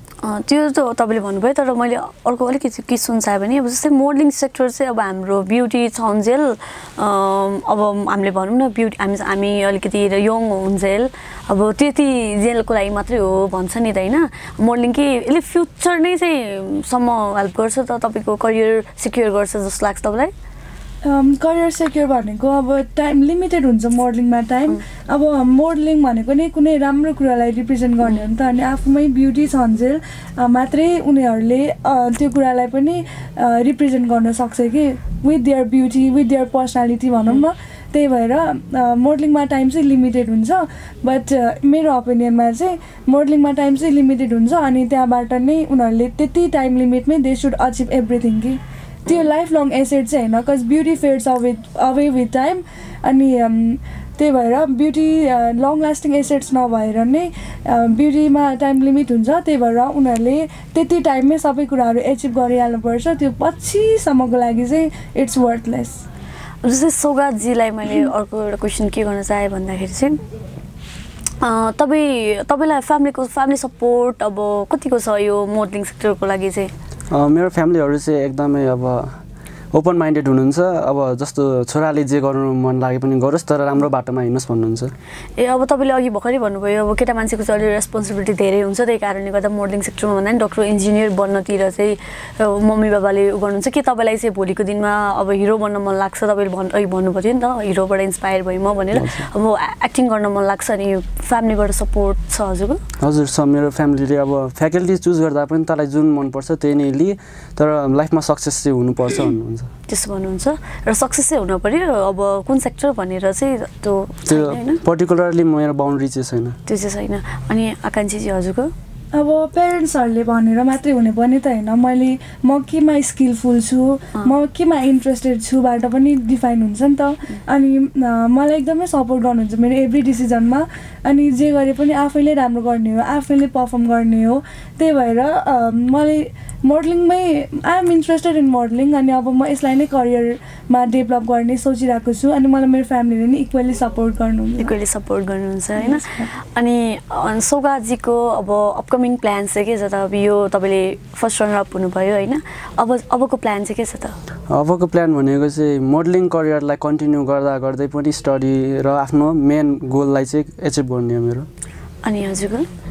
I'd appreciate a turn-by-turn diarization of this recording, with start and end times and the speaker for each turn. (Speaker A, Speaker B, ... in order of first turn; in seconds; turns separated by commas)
Speaker A: 0.2-20.3, Speaker B: 21.0-66.0, Speaker A: 66.6-70.2, Speaker A: 71.4-76.7, Speaker C: 77.1-79.2, Speaker C: 79.7-84.9, Speaker A: 85.4-102.8, Speaker C: 98.9-99.3, Speaker C: 103.0-109.7, Speaker A: 109.9-114.8, Speaker C: 114.3-116.6, Speaker A: 116.7-118.7, Speaker B: 119.1-144.7, Speaker A: 144.6-154.2, Speaker B: 145.8-146.3, Speaker C: 154.5-161.5, Speaker A: 162.0-162.7